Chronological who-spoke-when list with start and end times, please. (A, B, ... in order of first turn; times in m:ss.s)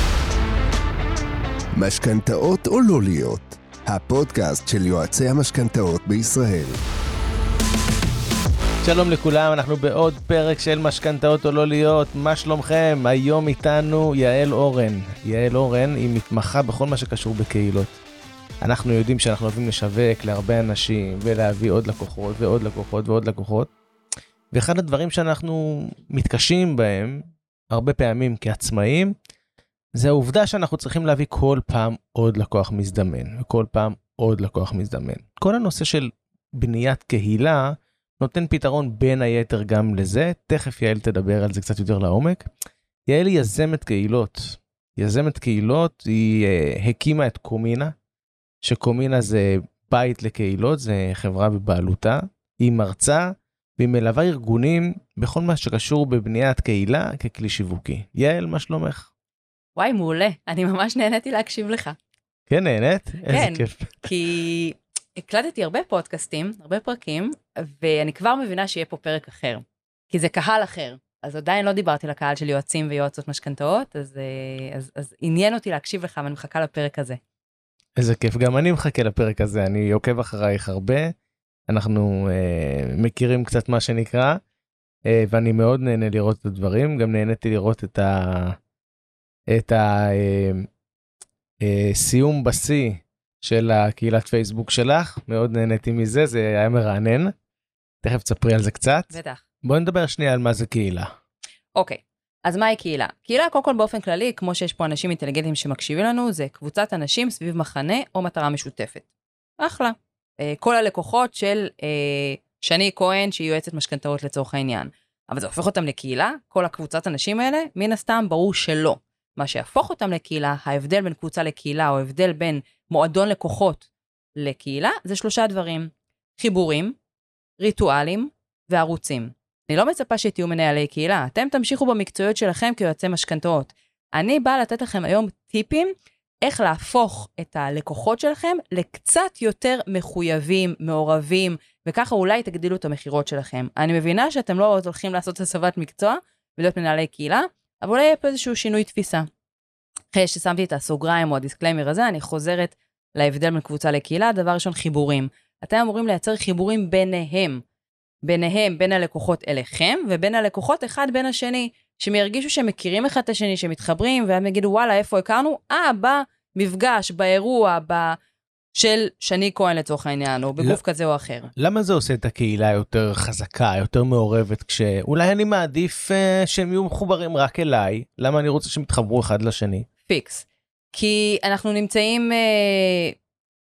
0:01.8-0:06.8 A
0:08.8-0:18.0 B
0:18.6-0:23.7 B
0:24.5-0:29.1 B
0:29.9-0:42.5 B
0:43.1-0:47.9 B
0:48.6-0:59.1 B
0:59.8-1:02.0 C
1:02.5-1:03.9 B
1:03.3-1:17.2 C
1:18.0-1:21.1 B
1:21.7-1:24.4 B
1:25.0-1:28.6 B
1:29.5-1:30.7 B
1:31.6-1:37.3 B
1:38.0-1:41.1 B
1:39.1-1:39.4 C
1:41.8-1:49.0 C
1:49.6-2:03.8 C
2:04.4-2:07.0 C
2:07.6-2:29.3 C
2:30.1-2:37.6 C
2:38.2-2:48.2 C
2:48.7-2:51.5 C
2:51.6-2:59.9 B
3:00.0-3:03.1 C